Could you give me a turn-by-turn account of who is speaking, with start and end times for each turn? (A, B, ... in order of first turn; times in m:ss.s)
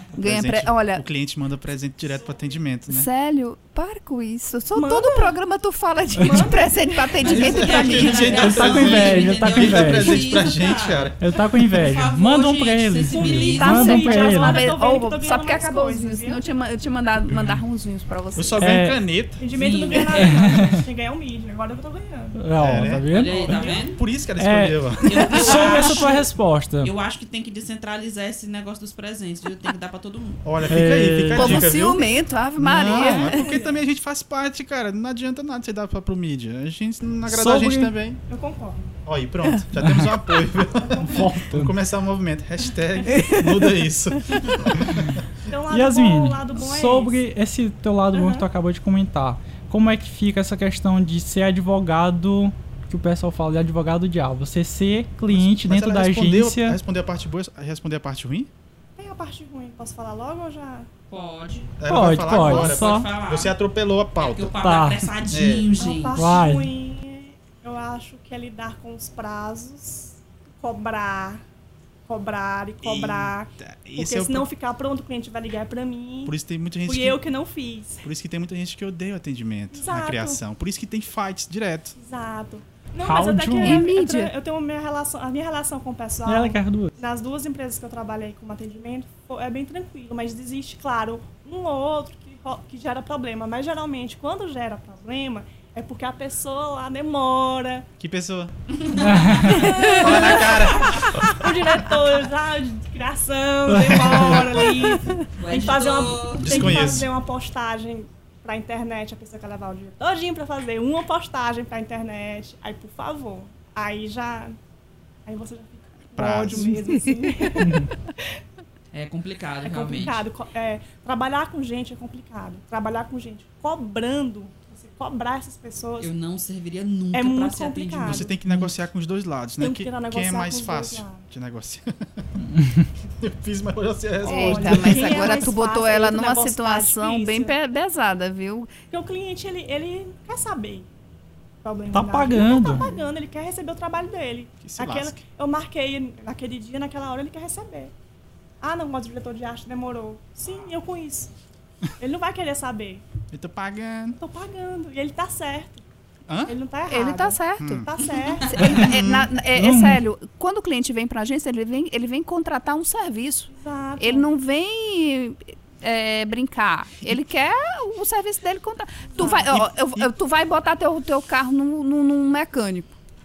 0:00.2-0:01.1 A
0:00.2-0:03.1 B
0:02.0-0:02.6 C
0:02.9-0:08.6 A
0:04.7-0:05.4 C
0:06.1-0:07.7 C
0:07.2-0:13.9 D
0:07.2-0:11.2 B
0:08.3-0:10.5 E
0:11.2-0:14.6 E
0:13.1-0:16.4 C
0:13.6-0:18.7 A
0:17.3-0:17.6 B
0:18.3-0:19.4 B
0:18.6-0:19.0 E
0:19.4-0:22.4 C
0:19.5-0:20.4 D
0:20.1-0:20.8 E
0:22.3-0:23.4 E
0:22.6-0:25.7 B
0:23.1-0:24.0 D
0:23.2-0:23.9 C
0:24.4-0:26.9 E
0:25.0-0:26.2 D
0:26.8-0:30.4 D
0:30.4-0:38.2 B
0:30.7-0:31.7 E
0:31.3-0:33.5 A
0:32.8-0:33.8 C
0:37.3-0:37.9 E
0:38.3-0:39.0 C
0:39.0-0:45.2 B
0:39.8-0:40.1 E
0:40.8-0:41.3 C
0:41.0-0:41.7 E
0:43.1-0:43.7 A
0:45.5-0:47.2 C
0:45.7-0:56.8 E
0:48.1-0:48.4 C
0:55.3-0:58.5 B
0:59.0-1:00.9 C
1:01.1-1:01.7 D
1:01.8-1:04.5 B
1:01.8-1:03.1 E
1:02.3-1:03.5 D
1:04.2-1:06.2 D
1:04.6-1:05.0 E
1:05.2-1:05.7 B
1:05.8-1:11.4 C
1:06.2-1:06.7 E
1:12.0-1:18.0 C
1:12.8-1:14.5 B
1:16.2-1:17.2 B
1:18.0-1:22.0 B
1:19.7-1:20.4 C
1:22.0-1:37.8 C
1:23.0-1:23.9 E
1:23.6-1:24.3 A
1:26.2-1:26.9 E
1:38.0-1:38.5 B
1:38.9-1:40.4 D
1:38.9-1:39.7 E
1:39.3-1:54.6 C
1:39.6-1:41.9 B
1:43.7-1:44.4 E
1:43.8-1:44.6 B
1:45.4-1:46.7 D
1:46.4-1:47.1 B
1:55.2-1:58.0 C
1:56.2-1:56.8 B
1:57.6-1:57.9 E
1:58.9-2:00.2 D
1:59.6-2:06.1 C
2:06.0-2:08.3 D
2:07.1-2:08.3 C
2:08.0-2:12.3 B
2:08.5-2:08.7 E
2:09.6-2:11.3 C
2:12.5-2:12.8 E
2:13.2-2:15.5 B
2:14.2-2:17.5 C
2:14.2-2:18.7 A
2:18.9-2:20.9 C
2:21.6-2:27.9 C
2:21.9-2:22.9 E
2:22.8-2:23.0 A
2:24.6-2:25.2 B
2:28.6-2:31.3 C
2:32.0-2:33.0 C
2:33.3-2:34.2 B
2:34.2-2:35.8 C
2:36.3-2:36.6 B
2:36.5-2:38.8 C
2:36.9-2:37.9 A
2:37.6-2:37.9 B
2:38.2-2:38.5 D
2:38.5-2:53.0 A
2:38.6-2:38.9 E
2:38.8-2:39.3 B
2:39.5-2:40.0 E
2:43.5-2:44.3 C
2:49.1-2:49.5 C
2:49.2-2:50.1 B